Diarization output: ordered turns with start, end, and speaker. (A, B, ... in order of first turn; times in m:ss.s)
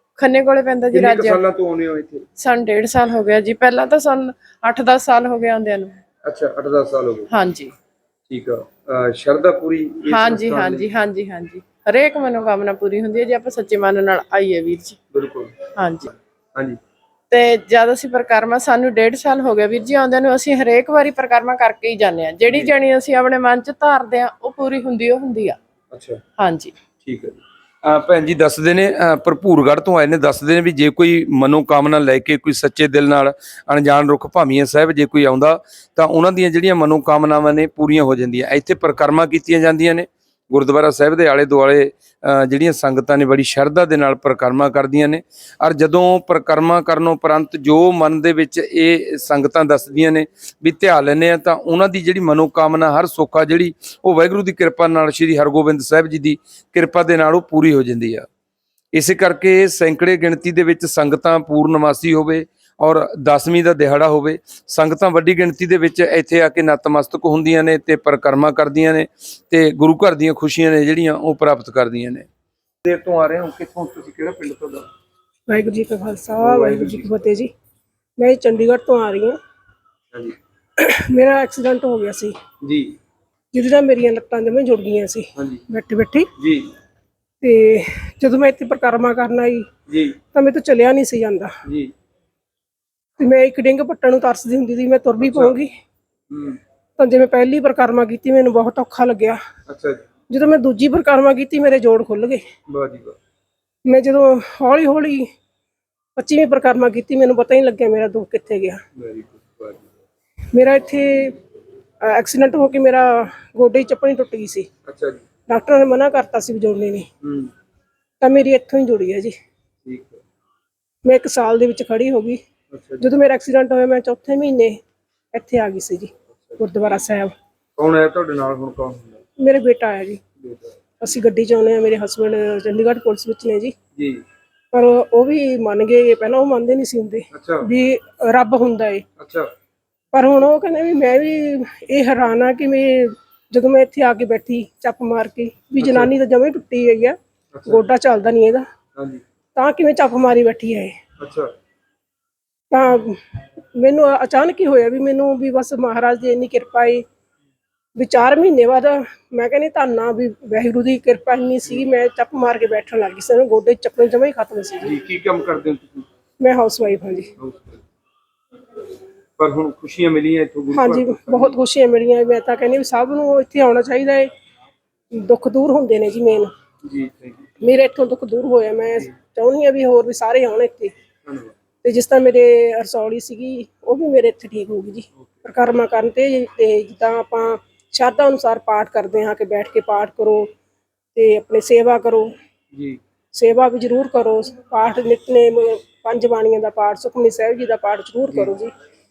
0:00.2-0:01.4 A
0:00.9-0:02.3 B
0:02.4-0:06.0 A
0:06.3-0:07.3 B
0:07.3-0:07.7 A
0:08.3-0:10.9 B
0:10.1-0:15.0 A
0:15.1-0:15.6 B
0:15.8-0:16.1 A
0:17.3-0:25.6 A
0:22.5-0:22.7 B
0:25.9-0:26.2 B
0:26.4-0:26.8 A
0:27.0-0:58.3 B
0:58.9-1:12.3 B
1:12.8-1:14.9 B
1:15.5-1:17.5 C
1:16.4-1:17.2 B
1:18.2-1:19.4 C
1:20.8-1:22.4 C
1:22.6-1:23.0 B
1:23.5-1:26.3 C
1:25.4-1:25.6 B
1:26.4-1:26.7 B
1:27.4-1:29.7 C
1:29.9-1:30.2 B
1:30.3-1:31.6 C
1:31.6-1:31.9 B
1:33.2-1:35.7 C
1:35.2-1:35.6 B
1:36.3-1:36.6 B
1:37.0-1:39.4 C
1:39.7-1:40.0 B
1:40.3-1:42.4 C
1:42.7-1:43.2 B
1:43.9-1:45.3 C
1:46.2-1:48.8 C
1:49.0-1:49.8 B
1:50.5-1:51.4 C
1:52.0-1:54.7 C
1:54.9-1:55.2 B
1:55.5-1:57.1 C
1:57.2-1:57.5 B
1:58.2-1:59.3 C
1:59.8-2:00.2 B
2:01.0-2:02.4 C
2:02.7-2:03.1 B
2:03.0-2:04.8 C
2:05.3-2:07.3 C
2:06.3-2:06.6 B
2:07.8-2:09.2 B
2:09.4-2:10.2 C
2:10.4-2:10.8 B
2:11.0-2:13.7 C
2:14.0-2:14.2 B
2:14.7-2:19.0 C
2:17.3-2:17.7 B
2:19.2-2:19.5 B
2:20.1-2:28.6 C
2:25.8-2:26.1 B
2:27.5-2:27.9 B
2:29.0-2:29.2 B
2:29.6-2:31.0 C
2:31.2-2:31.5 B
2:32.7-2:33.2 C
2:33.8-2:37.0 C
2:38.0-2:45.0 C
2:44.8-2:46.1 B
2:46.4-2:47.3 C
2:47.4-2:47.8 B
2:49.4-2:51.6 B
2:50.7-2:54.3 C
2:55.1-2:56.5 C
2:56.8-2:57.6 B
2:57.6-3:00.9 C
3:01.2-3:01.6 B
3:01.8-3:10.5 C
3:11.2-3:12.3 C
3:12.7-3:13.0 B
3:13.4-3:18.7 C